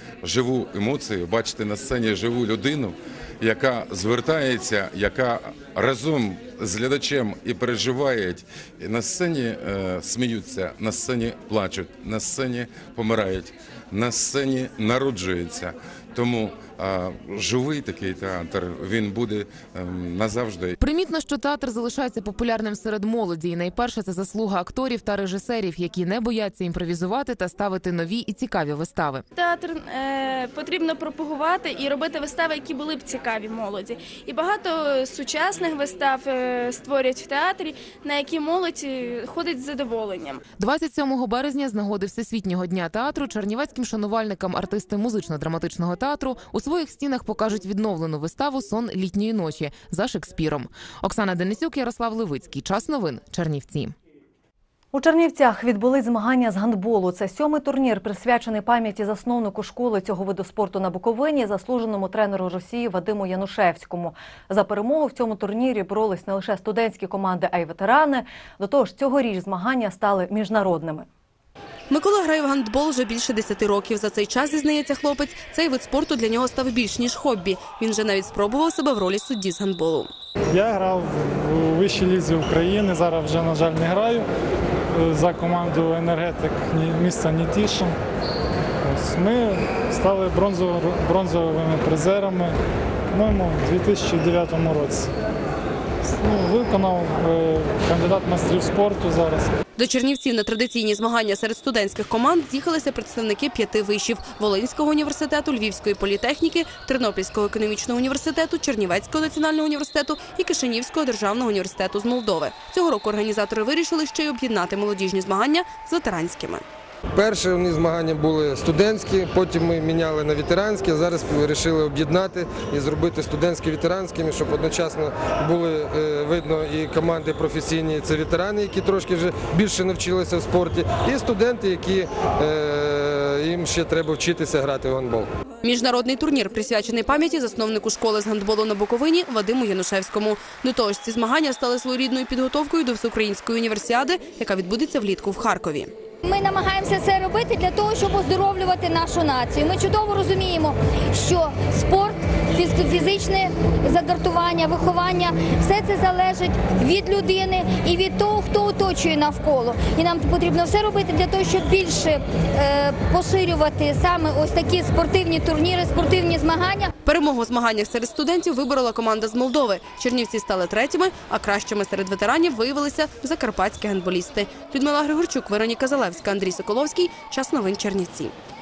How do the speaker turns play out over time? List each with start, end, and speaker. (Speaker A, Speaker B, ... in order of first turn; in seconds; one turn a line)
Speaker A: 0.2-20.8
Speaker B: 20.8-29.2
Speaker C: 29.4-40.3
Speaker B: 40.6-54.0
Speaker D: 54.9-71.1
Speaker E: 71.9-80.1
Speaker F: 80.5-84.3
Speaker F: 84.9-88.0
Speaker F: 88.8-92.5
Speaker F: 93.1-95.1
Speaker F: 96.0-99.5
Speaker E: 99.8-116.6
Speaker G: 117.1-135.3
Speaker E: 135.6-145.9
Speaker H: 146.2-166.9
Speaker E: 167.0-178.3